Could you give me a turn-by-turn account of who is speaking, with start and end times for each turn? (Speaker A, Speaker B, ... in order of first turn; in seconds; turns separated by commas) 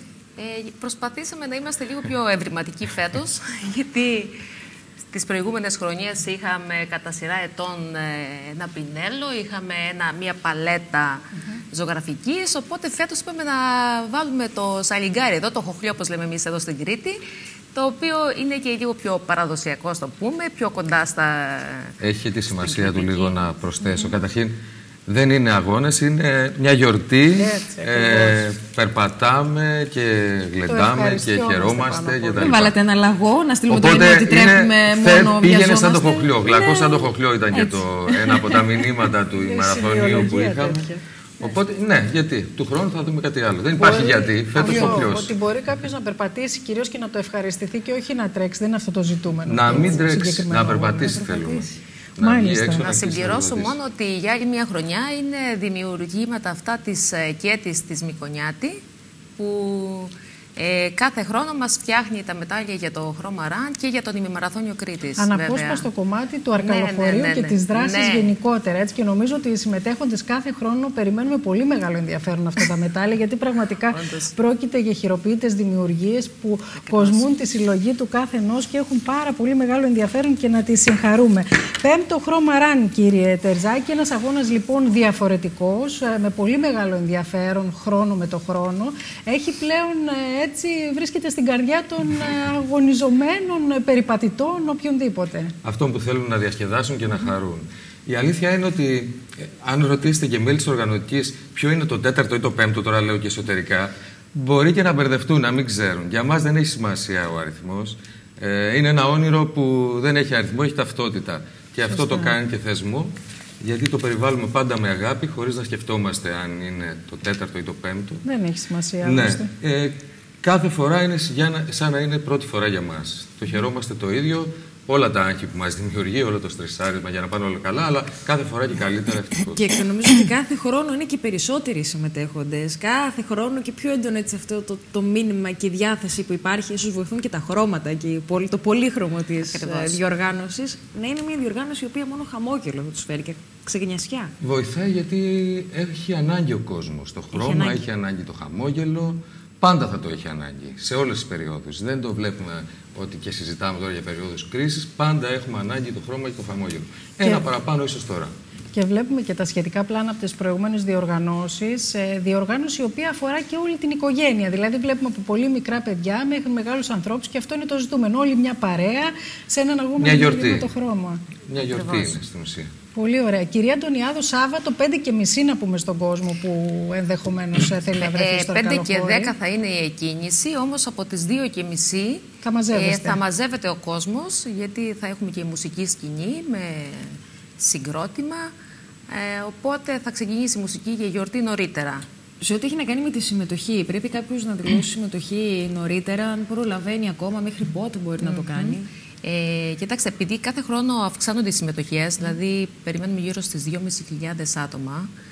Speaker A: 0.4-4.4, Speaker A: 5.1-17.2, Speaker A: 17.7-21.9, Speaker B: 22.0-24.5, Speaker A: 22.5-23.5, Speaker B: 25.1-32.8, Speaker C: 27.3-28.4, Speaker C: 30.7-32.6, Speaker D: 32.4-38.8, Speaker B: 33.7-40.9, Speaker C: 39.3-41.0, Speaker B: 41.4-45.3, Speaker C: 43.8-51.2, Speaker B: 49.5-53.8, Speaker D: 51.1-51.8, Speaker C: 52.2-52.9, Speaker A: 52.8-58.8, Speaker A: 59.4-65.9, Speaker C: 65.2-95.5, Speaker A: 66.6-68.3, Speaker A: 73.9-74.3, Speaker A: 76.8-77.2, Speaker B: 95.6-118.2, Speaker C: 111.9-112.3, Speaker C: 118.2-119.5, Speaker B: 119.0-129.7, Speaker D: 129.4-144.3, Speaker A: 139.5-140.0, Speaker B: 144.4-158.3, Speaker D: 147.3-147.8, Speaker C: 158.7-171.2, Speaker B: 170.0-170.7, Speaker B: 171.5-172.7, Speaker A: 171.6-172.2, Speaker C: 172.9-179.3, Speaker A: 178.0-188.5, Speaker C: 182.4-183.2, Speaker A: 189.1-192.0, Speaker D: 192.4-198.9, Speaker A: 198.2-205.1